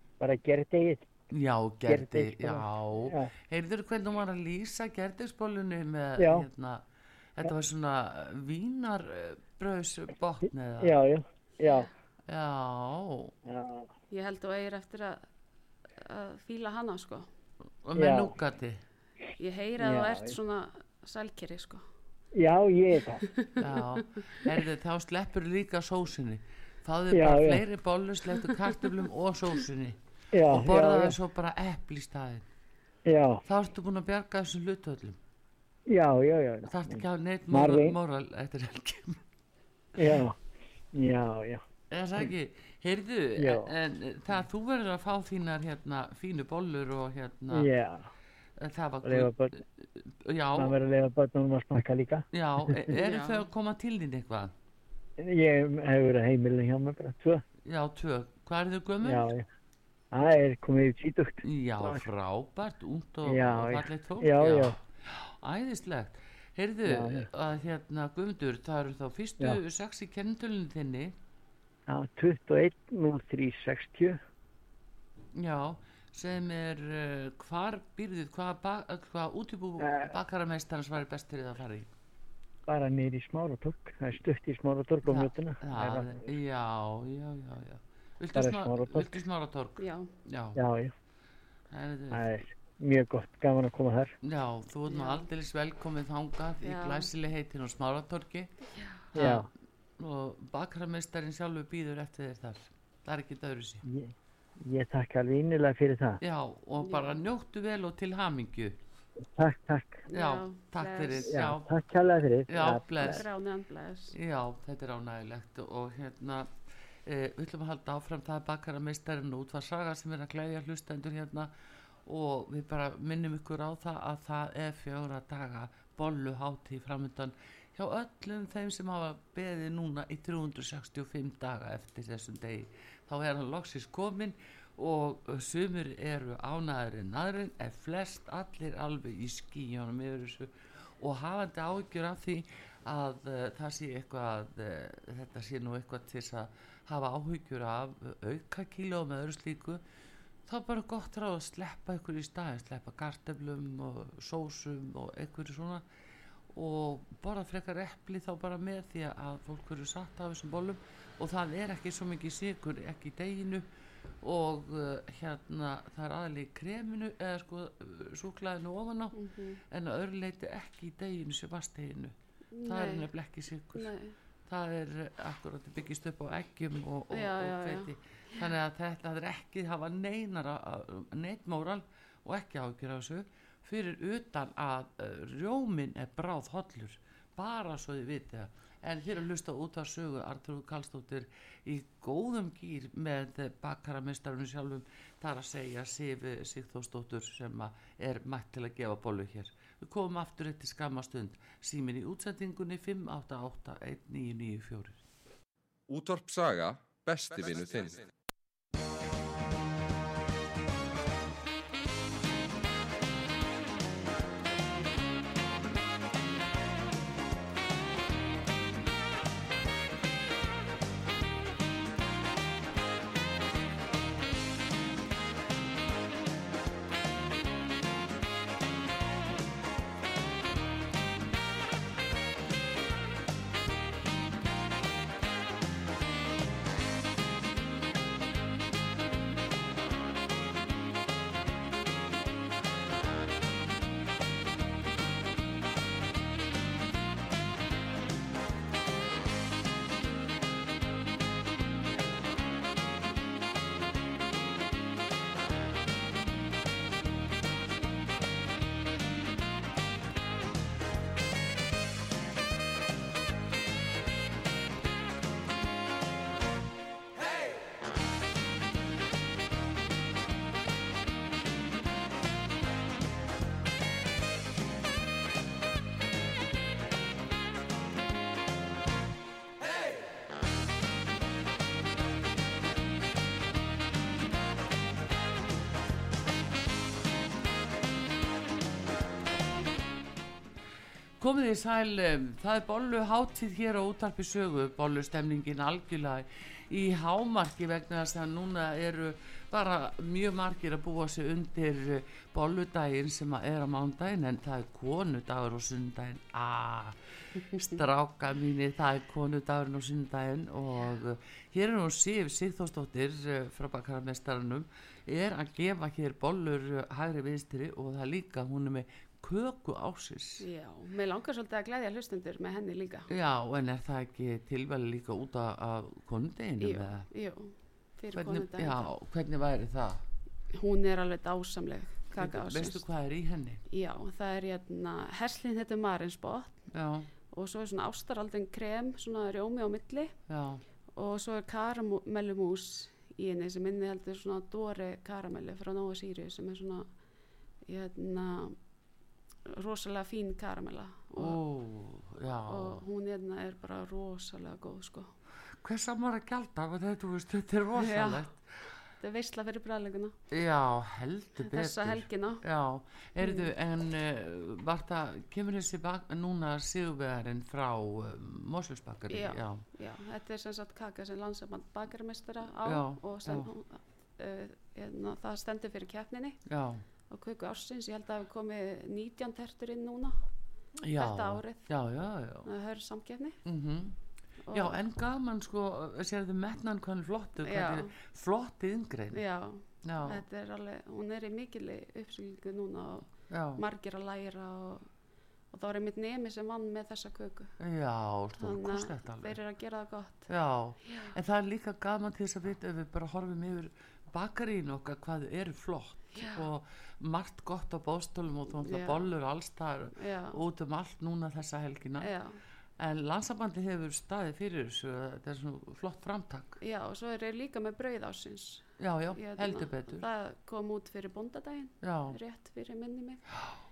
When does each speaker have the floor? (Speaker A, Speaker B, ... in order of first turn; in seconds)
Speaker A: 0.2-1.1, 1.9-3.3, 6.2-6.5, 10.8-11.9, 13.4-13.9, 17.9-18.3, 19.8-20.4, 22.4-23.2, 27.1-27.6, 30.3-31.2, 33.0-33.4, 35.9-38.0, 40.0-40.4, 40.9-41.6, 43.4-43.7, 47.5-48.1, 49.0-49.6, 50.5-52.9, 55.2-57.4, 59.0-59.4, 60.1-62.0, 63.2-64.8, 66.9-67.3, 71.9-74.2, 79.8-80.1, 82.7-86.4, 88.3-89.1, 90.5-90.9, 92.1-94.1, 99.1-99.5, 103.8-106.2, 109.3-110.0, 111.3-113.2
Speaker B: 1.3-6.8, 7.4-10.9, 12.3-13.3, 17.8-18.8, 23.6-32.5, 33.5-35.2, 36.6-39.2, 41.9-47.7, 48.6-49.6, 50.2-50.8, 52.3-54.5, 57.6-59.3, 61.4-71.1, 75.3-81.9, 85.0-90.6, 91.7-92.2, 94.2-98.5, 99.1-99.5, 100.0-103.8, 106.2-108.8, 110.1-111.7, 112.5-113.2, 114.1-116.5, 117.0-121.5, 122.0-149.8, 150.5-155.8, 156.5-163.6, 164.2-169.2, 169.7-173.9, 174.5-205.0, 291.2-307.0, 307.5-320.4, 323.1-327.1, 328.1-330.0, 332.1-333.6, 336.7-337.1, 340.3-340.6, 351.1-352.8, 355.6-358.4, 360.3-369.6, 372.6-373.5, 376.4-376.8, 380.8-382.5, 383.4-383.9, 384.5-389.2, 389.8-390.2, 393.3-393.6, 397.6-399.4, 400.3-412.1, 412.8-416.6, 418.8-420.0, 421.8-422.2
Speaker C: 14.1-15.2, 16.0-17.3, 19.4-21.8, 23.4-24.0, 52.9-53.5, 89.8-90.1, 94.9-95.3, 96.6-97.1, 98.7-99.1, 106.8-107.1, 110.1-111.3, 113.0-114.2, 169.1-169.6, 172.5-173.1, 173.7-174.2, 177.1-178.5, 320.4-323.1, 326.6-328.9, 330.5-332.8, 333.7-336.7, 337.3-340.1, 340.9-346.9, 347.6-348.6, 349.5-351.4, 352.5-355.1, 357.8-358.2, 359.0-360.2, 361.4-362.4, 363.2-363.5, 369.1-376.4, 377.1-380.2, 380.9-381.7, 382.4-383.4, 384.4-384.8, 387.4-387.9, 389.1-394.9, 395.5-397.5, 398.4-400.3, 400.8-401.1, 406.1-406.5, 408.6-409.1, 409.9-410.4, 412.0-412.4, 416.6-423.2
Speaker D: 205.9-208.1